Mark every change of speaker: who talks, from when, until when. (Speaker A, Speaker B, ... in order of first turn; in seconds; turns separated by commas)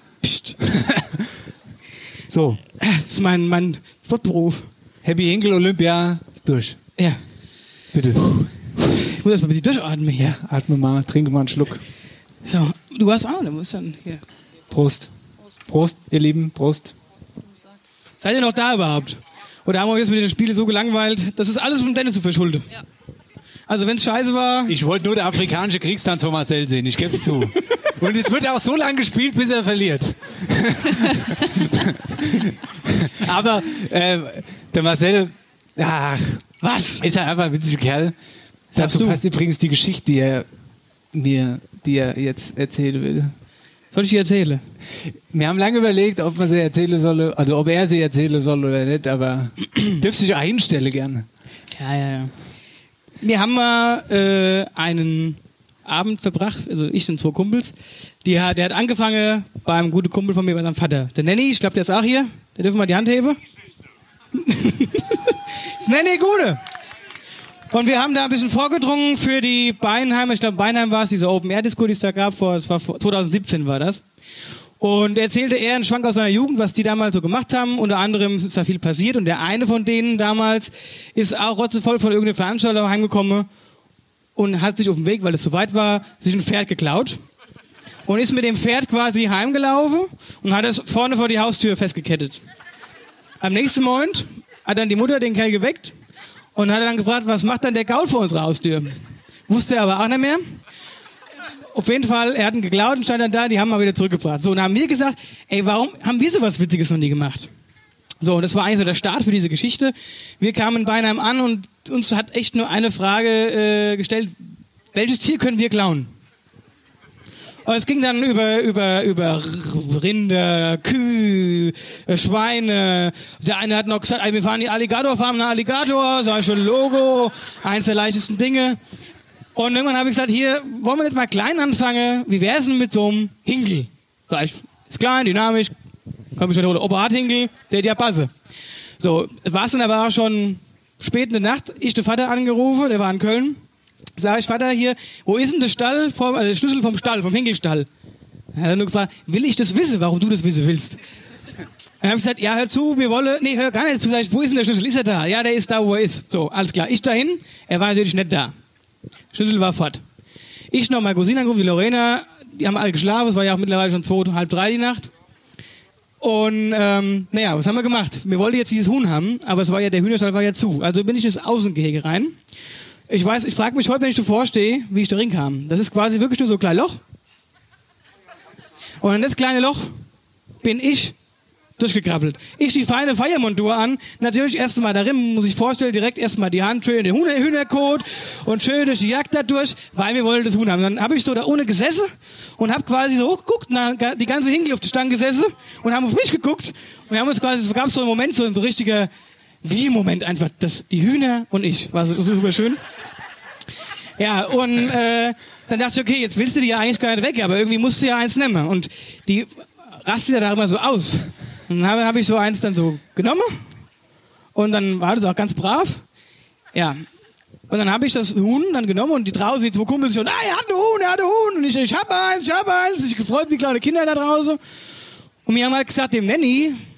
Speaker A: 0.2-0.6, Speaker B: 0.6-1.3, Speaker B: 2.3-2.6, Speaker A: 2.8-4.7, Speaker B: 5.0-6.8, Speaker B: 7.9-8.5, Speaker A: 9.0-10.4, Speaker B: 10.2-11.8, Speaker A: 12.4-14.2, Speaker B: 14.7-15.1, Speaker B: 15.7-16.9, Speaker A: 18.2-22.7, Speaker A: 23.7-24.8, Speaker B: 24.7-36.4, Speaker A: 36.6-37.0, Speaker B: 37.0-38.1, Speaker B: 38.7-40.5, Speaker A: 38.8-39.2, Speaker B: 41.1-43.3, Speaker A: 43.9-44.6, Speaker B: 45.3-51.3, Speaker A: 51.7-52.3, Speaker A: 53.2-57.7, Speaker A: 58.2-63.4, Speaker A: 64.4-65.3, Speaker A: 65.8-66.6, Speaker A: 67.7-74.0, Speaker A: 74.8-83.5, Speaker A: 84.3-87.2, Speaker A: 88.1-92.4, Speaker A: 93.4-95.9, Speaker A: 96.5-99.0, Speaker A: 99.5-100.5, Speaker A: 101.7-107.5, Speaker A: 108.2-114.3, Speaker A: 114.9-116.1, Speaker A: 117.7-128.8, Speaker A: 129.6-135.7, Speaker A: 136.3-138.3, Speaker A: 139.0-143.6, Speaker A: 144.2-147.9, Speaker A: 148.5-151.0, Speaker A: 152.0-158.5, Speaker A: 159.3-160.0, Speaker A: 160.7-165.1, Speaker A: 166.2-172.4, Speaker A: 173.1-177.0, Speaker A: 179.0-179.9, Speaker A: 180.6-181.1, Speaker A: 181.8-199.1, Speaker A: 199.6-202.8, Speaker A: 204.2-213.6, Speaker A: 214.5-216.0, Speaker A: 216.7-217.0, Speaker A: 217.7-224.6, Speaker A: 225.4-226.8